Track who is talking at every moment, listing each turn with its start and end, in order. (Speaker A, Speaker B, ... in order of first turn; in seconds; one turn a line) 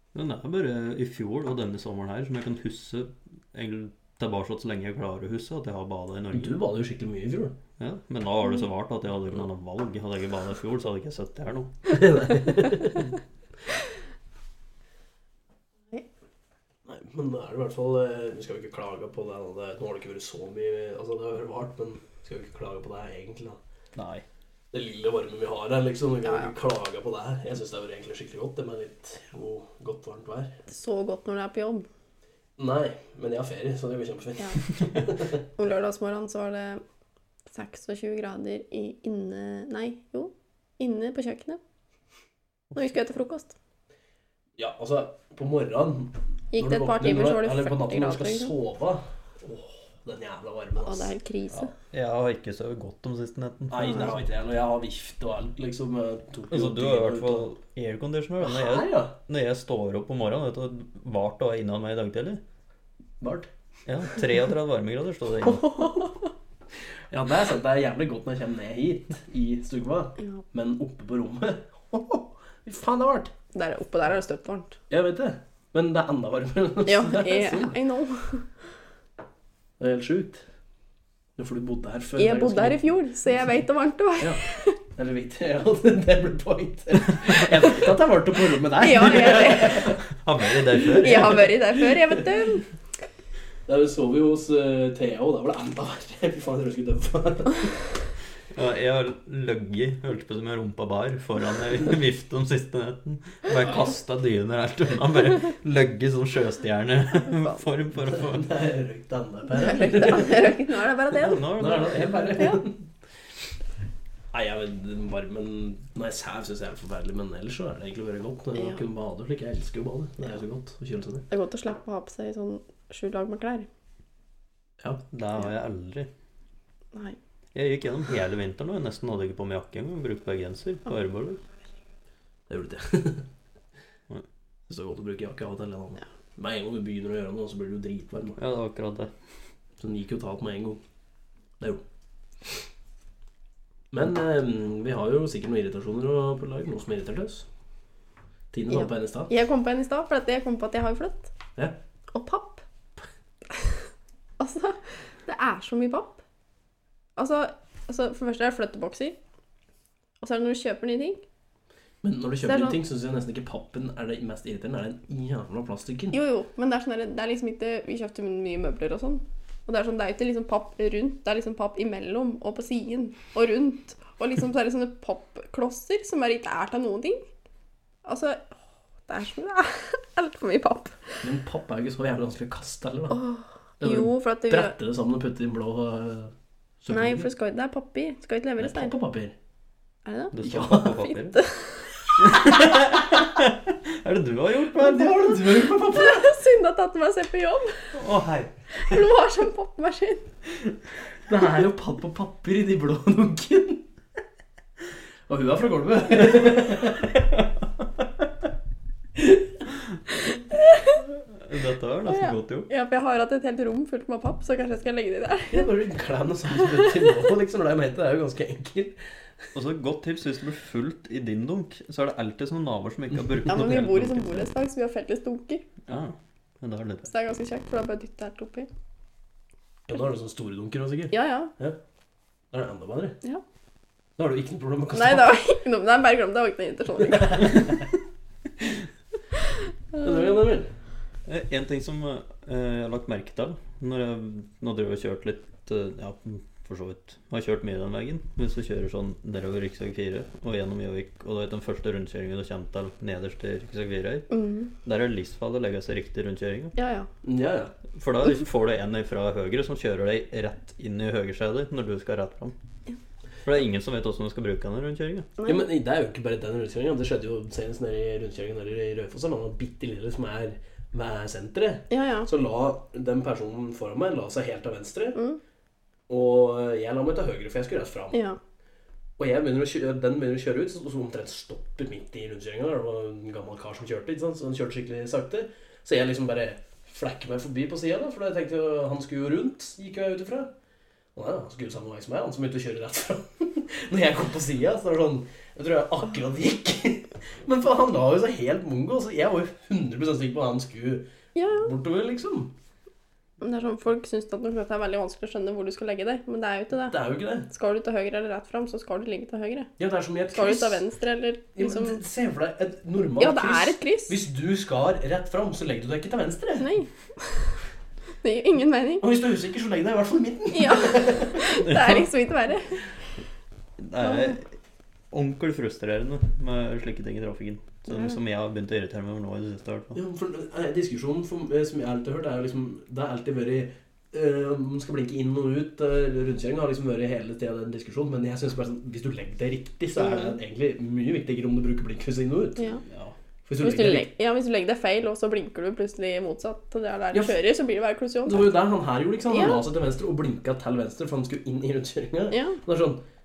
Speaker A: 0.1-6.6
Speaker B: 6.3-7.5
Speaker A: 7.8-11.7
Speaker B: 11.8-13.0
Speaker B: 16.9-23.6
Speaker A: 23.9-24.2
Speaker B: 24.7-30.5
Speaker C: 26.2-26.5
Speaker C: 30.7-31.9
Speaker B: 32.6-35.4
Speaker C: 35.5-36.8
Speaker C: 37.5-41.6
Speaker C: 42.7-43.5
Speaker B: 44.6-51.1
Speaker C: 46.5-48.5
Speaker C: 50.8-51.7
Speaker A: 51.8-54.2
Speaker B: 53.7-57.5
Speaker A: 56.5-62.4
Speaker B: 58.4-59.1
Speaker B: 63.2-63.5
Speaker A: 63.9-65.9
Speaker B: 67.1-73.3
Speaker C: 73.5-74.8
Speaker B: 74.9-77.8
Speaker C: 76.8-78.5
Speaker B: 79.8-80.4
Speaker B: 81.4-82.8
Speaker C: 82.2-84.8
Speaker B: 84.9-90.0
Speaker C: 88.8-89.9
Speaker A: 90.1-91.5
Speaker B: 90.6-92.2
Speaker C: 91.0-92.7
Speaker B: 93.7-97.9
Speaker A: 98.5-108.5
Speaker B: 108.0-110.6
Speaker C: 109.5-111.5
Speaker A: 111.1-112.5
Speaker B: 111.5-112.8
Speaker C: 112.3-112.6
Speaker B: 114.3-121.2
Speaker C: 118.5-118.8
Speaker C: 121.3-123.7
Speaker A: 125.1-126.1
Speaker A: 127.5-131.4
Speaker B: 132.5-133.2
Speaker B: 134.7-138.4
Speaker A: 138.4-139.1
Speaker B: 139.8-140.8
Speaker B: 143.9-147.4
Speaker B: 148.5-149.3
Speaker C: 148.7-151.3
Speaker C: 152.1-152.6
Speaker C: 154.4-156.2
Speaker C: 157.2-159.2
Speaker C: 160.2-161.2
Speaker B: 162.0-166.2
Speaker C: 162.4-162.8
Speaker C: 166.1-177.2
Speaker C: 178.0-178.5
Speaker C: 179.1-181.2
Speaker B: 181.2-183.2
Speaker C: 183.1-184.8
Speaker B: 183.8-187.3
Speaker C: 186.9-188.9
Speaker B: 188.6-189.3
Speaker C: 190.0-190.4
Speaker A: 190.3-191.4
Speaker B: 190.4-190.9
Speaker C: 190.9-192.4
Speaker A: 192.2-195.4
Speaker B: 194.8-196.3
Speaker C: 195.7-197.9
Speaker A: 197.9-198.5
Speaker C: 198.7-200.3
Speaker B: 201.3-203.8
Speaker B: 205.3-207.1
Speaker C: 210.5-211.0
Speaker A: 211.3-212.7
Speaker C: 212.1-215.7
Speaker B: 215.5-219.0
Speaker A: 219.5-224.5
Speaker C: 223.5-225.7
Speaker A: 225.9-227.1
Speaker C: 227.1-228.7
Speaker B: 229.9-231.8
Speaker C: 231.1-231.5
Speaker B: 232.5-233.2
Speaker B: 234.2-235.4
Speaker C: 234.9-237.7
Speaker B: 237.1-237.7
Speaker B: 240.0-240.7
Speaker A: 241.2-254.3
Speaker C: 254.3-254.7
Speaker A: 254.8-256.7
Speaker C: 256.8-257.1
Speaker B: 257.2-257.7
Speaker A: 257.9-262.5
Speaker A: 263.4-265.3
Speaker C: 265.4-265.6
Speaker B: 265.4-275.2
Speaker C: 271.9-272.3
Speaker C: 275.1-275.4
Speaker B: 276.1-278.2
Speaker C: 278.1-278.4
Speaker B: 279.2-290.5
Speaker B: 291.1-302.5
Speaker C: 301.4-301.7
Speaker C: 303.4-309.7
Speaker B: 306.9-307.5
Speaker B: 309.8-310.8
Speaker C: 310.3-312.0
Speaker B: 311.6-316.7
Speaker C: 313.2-314.2
Speaker C: 316.6-317.5
Speaker C: 318.2-319.1
Speaker B: 319.0-322.0
Speaker C: 320.5-322.8
Speaker A: 323.8-324.5
Speaker C: 324.0-324.3
Speaker A: 325.1-330.0
Speaker C: 327.9-328.1
Speaker B: 329.9-342.6
Speaker C: 339.9-340.3
Speaker B: 343.4-344.1
Speaker C: 343.6-348.6
Speaker B: 347.1-347.4
Speaker B: 348.2-353.0
Speaker C: 349.3-349.6
Speaker C: 352.3-352.6